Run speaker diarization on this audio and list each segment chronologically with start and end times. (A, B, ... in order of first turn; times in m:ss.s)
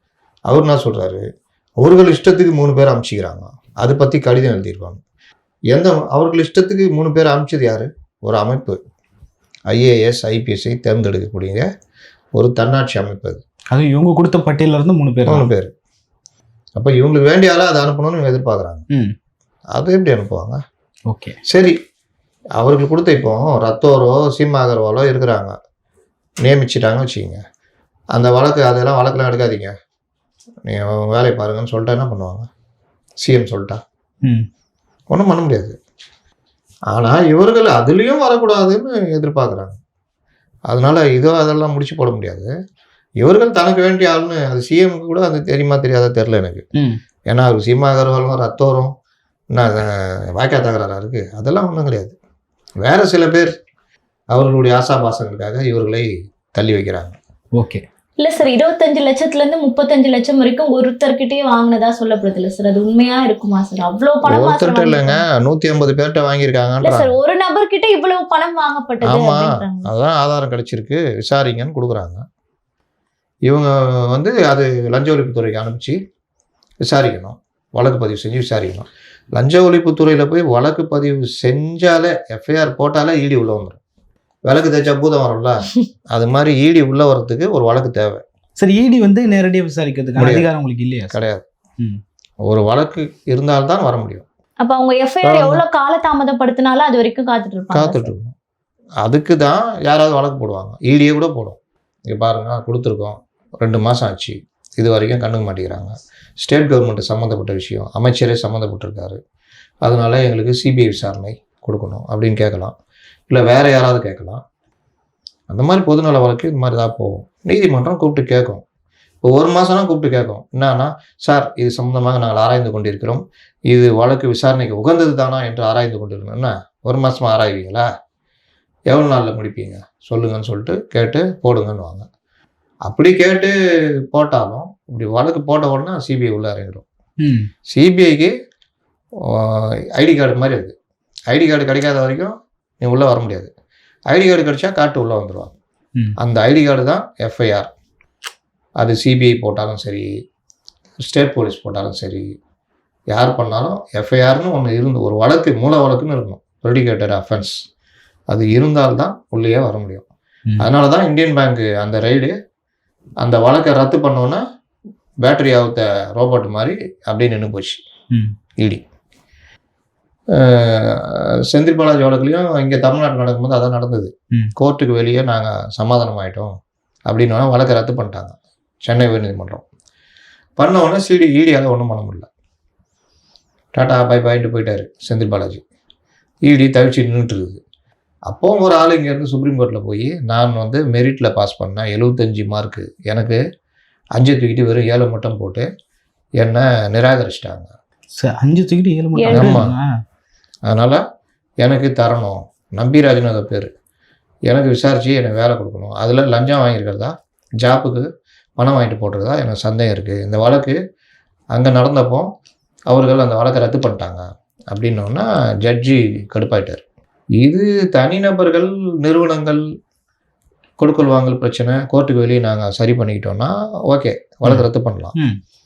0:00.5-0:01.2 A
0:01.8-0:05.0 A
0:05.7-0:08.8 A
0:09.7-0:11.7 A
0:12.3-0:13.4 A
0:13.7-0:15.5 B
0:15.2-0:15.7 A
0:16.8-0:18.8 A
0:19.7-0:20.6 A
0:21.1-0:21.4 B
0:21.5-0:21.8 A
0:22.6-0:25.5 A
0:26.4-0:27.4 A
0:28.1-0:29.7 A
0:30.6-0:32.5 A
0:33.2-0:33.8 A
0:35.1-0:35.8 A
0:36.9-0:39.8 A
0:40.7-0:42.5 A
0:43.2-0:46.6 A
0:46.8-0:47.0 B
0:47.3-0:48.9 A
0:49.5-0:52.2 A
0:52.8-0:53.5 A
0:54.3-0:57.2 A
0:57.5-0:57.8 B
0:58.2-1:05.2 C
1:04.2-1:07.1 A
1:06.8-1:09.9 C
1:09.0-1:12.2 A
1:13.4-1:16.0 A
1:16.8-1:23.8 A
1:24.4-1:28.2 A
1:28.6-1:31.2 B
1:30.2-1:30.5 A
1:31.1-1:31.4 A
1:32.5-1:34.2 A
1:34.6-1:38.1 C
1:35.2-1:35.6 A
1:37.7-1:38.4 A
1:39.0-1:41.6 A
1:42.1-1:49.2 A
1:49.8-1:52.8 A
1:53.3-1:54.4 A
1:55.5-1:58.6 A
1:59.2-2:07.9 A
2:08.9-2:12.1 A
2:12.9-2:13.5 A
2:14.1-2:16.8 A
2:17.2-2:17.5 B
2:17.7-2:18.3 A
2:19.2-2:20.7 A
2:21.3-2:23.5 A
2:24.1-2:25.5 A
2:26.2-2:27.7 A
2:28.8-2:30.1 A
2:31.0-2:32.3 A
2:33.1-2:37.6 A
2:38.3-2:40.0 A
2:40.6-2:42.3 A
2:43.2-2:44.4 A
2:45.2-2:47.8 A
2:50.3-2:56.6 A
2:57.1-2:59.6 A
3:00.6-3:02.3 A
3:03.7-3:05.6 A
3:06.4-3:07.6 A
3:08.3-3:13.4 A
3:14.2-3:15.7 A
3:16.4-3:17.7 A
3:18.2-3:19.9 B
3:19.2-3:19.6 C
3:19.3-3:19.7 A
3:20.7-3:21.0 A
3:21.6-3:23.7 A
3:24.5-3:28.1 A
3:28.6-3:30.8 A
3:31.5-3:32.3 A
3:32.9-3:36.8 A
3:37.4-3:39.6 A
3:40.8-3:45.1 A